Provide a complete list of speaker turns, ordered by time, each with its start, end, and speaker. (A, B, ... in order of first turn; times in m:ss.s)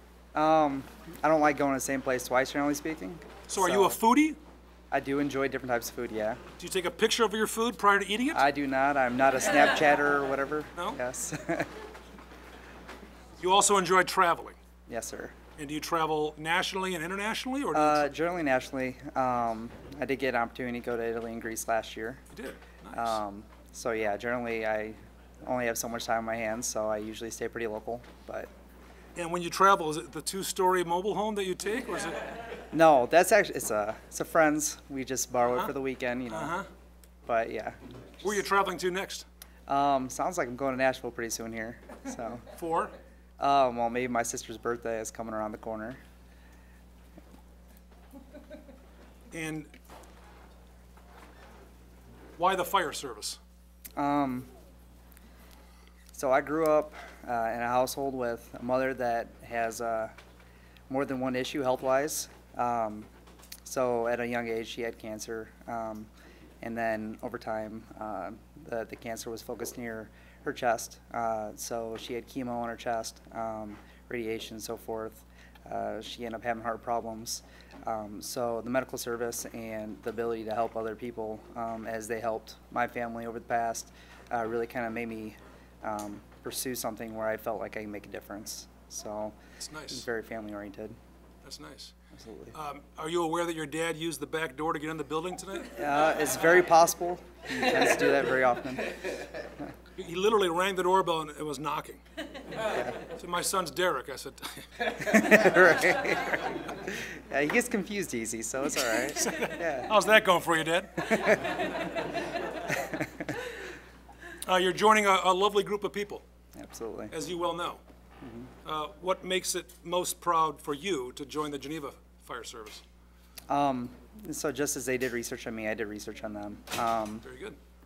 0:00.3-0:04.0 A
0:03.5-0:04.4 B
0:04.9-0:06.4 A
0:06.6-0:08.4 B
0:08.3-0:11.7 A
0:13.4-0:14.6 B
0:14.9-0:15.4 A
0:15.6-0:18.1 B
0:17.7-0:22.2 A
0:22.3-0:23.2 B
0:22.9-0:28.5 A
0:29.2-0:32.3 B
0:32.7-0:36.6 A
0:35.5-0:35.7 B
0:36.3-0:36.7 B
0:37.3-0:37.8 A
0:38.2-0:39.3 B
0:39.7-0:42.4 A
0:42.5-0:43.0 B
0:43.4-0:46.0 A
0:49.3-0:49.7 B
0:52.4-0:53.4 B
0:54.0-0:54.5 A
0:56.1-1:00.1 A
1:00.9-1:03.1 A
1:03.6-1:06.1 A
1:06.6-1:29.4 A
1:29.6-1:30.0 B
1:29.9-1:31.0 A
1:31.4-1:31.9 B
1:32.1-1:32.6 A
1:32.5-1:35.8 B
1:35.7-1:39.0 A
1:40.0-1:42.0 B
1:42.7-1:43.0 A
1:43.1-1:45.1 B
1:44.9-1:49.9 A
1:49.1-1:51.4 B
1:51.0-1:51.6 A
1:52.7-1:53.1 A
1:54.5-1:56.2 B
1:56.6-1:57.1 A
1:57.1-1:57.8 B
1:58.2-1:58.5 A
1:58.6-2:02.8 B
2:03.5-2:07.2 A
2:07.2-2:07.6 B